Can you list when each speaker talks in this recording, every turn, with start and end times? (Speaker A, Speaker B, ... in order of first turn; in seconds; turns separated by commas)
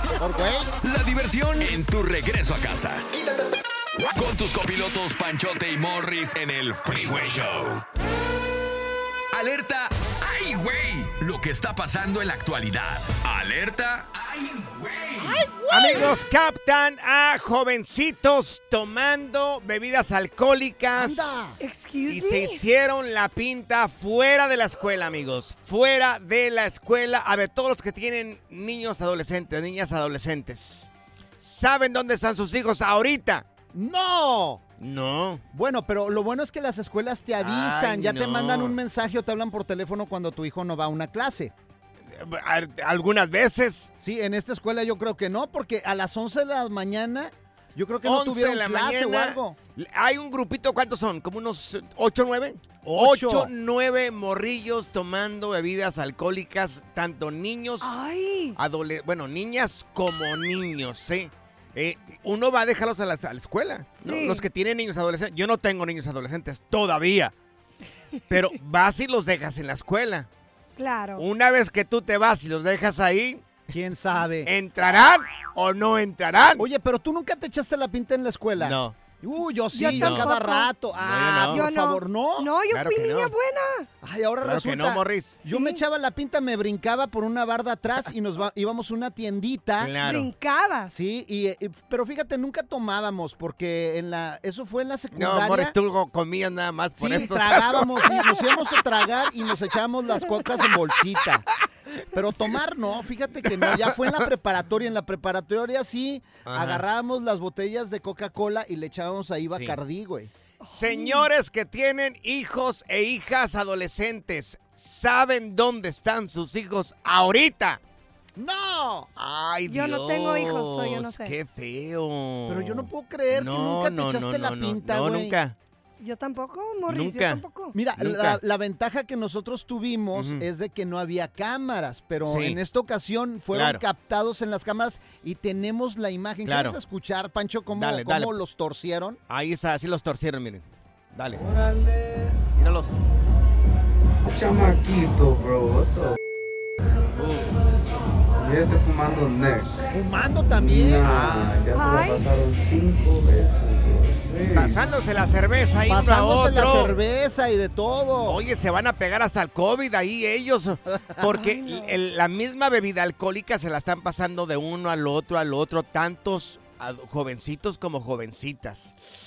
Speaker A: 0.2-0.7, Speaker B: 0.8-3.0, Speaker B: 4.1-7.8, Speaker B: 9.3-15.4, Speaker C: 15.5-16.0, Speaker D: 15.7-21.3, Speaker A: 20.9-21.6, Speaker C: 21.6-22.6, Speaker D: 22.1-30.9, Speaker D: 31.4-33.5, Speaker A: 33.7-34.6, Speaker D: 34.8-35.4, Speaker A: 35.5-41.5, Speaker D: 37.4-38.8, Speaker D: 42.1-43.9, Speaker A: 44.0-49.5, Speaker D: 48.0-58.0, Speaker A: 52.8-53.5, Speaker C: 57.8-58.6, Speaker D: 58.5-67.3, Speaker C: 64.0-64.4, Speaker D: 68.3-70.3, Speaker C: 70.8-71.2, Speaker D: 71.2-73.7, Speaker A: 73.7-74.5, Speaker D: 74.4-76.6, Speaker A: 76.6-82.5, Speaker D: 78.6-79.0, Speaker C: 79.7-80.7, Speaker D: 79.8-80.3, Speaker D: 81.0-81.7, Speaker C: 81.5-83.8, Speaker D: 82.7-83.3, Speaker A: 84.0-89.9, Speaker D: 84.4-85.4, Speaker C: 85.4-85.8, Speaker D: 89.8-90.3, Speaker C: 90.0-91.0, Speaker A: 90.9-95.7, Speaker D: 95.1-98.3, Speaker A: 97.0-101.5, Speaker A: 102.1-110.3, Speaker D: 103.5-104.1, Speaker D: 106.4-106.8, Speaker D: 109.5-109.8, Speaker C: 110.6-111.3, Speaker D: 110.6-117.8, Speaker A: 118.3-119.1, Speaker D: 119.2-125.5, Speaker C: 119.7-121.3, Speaker A: 122.5-125.3, Speaker C: 126.0-127.7, Speaker D: 126.8-127.4, Speaker A: 127.7-139.2, Speaker D: 128.0-128.4, Speaker D: 130.1-130.4, Speaker D: 132.2-132.6, Speaker D: 133.5-133.8, Speaker D: 136.4-136.8, Speaker D: 137.7-138.3, Speaker D: 139.3-141.4, Speaker E: 141.4-142.3, Speaker D: 142.6-142.9, Speaker E: 144.2-146.2, Speaker D: 147.2-147.5, Speaker E: 148.3-149.8, Speaker A: 149.9-151.5, Speaker E: 150.4-154.9, Speaker C: 151.7-152.2, Speaker D: 154.5-156.9, Speaker A: 155.9-158.4, Speaker D: 158.2-168.9, Speaker C: 161.3-161.9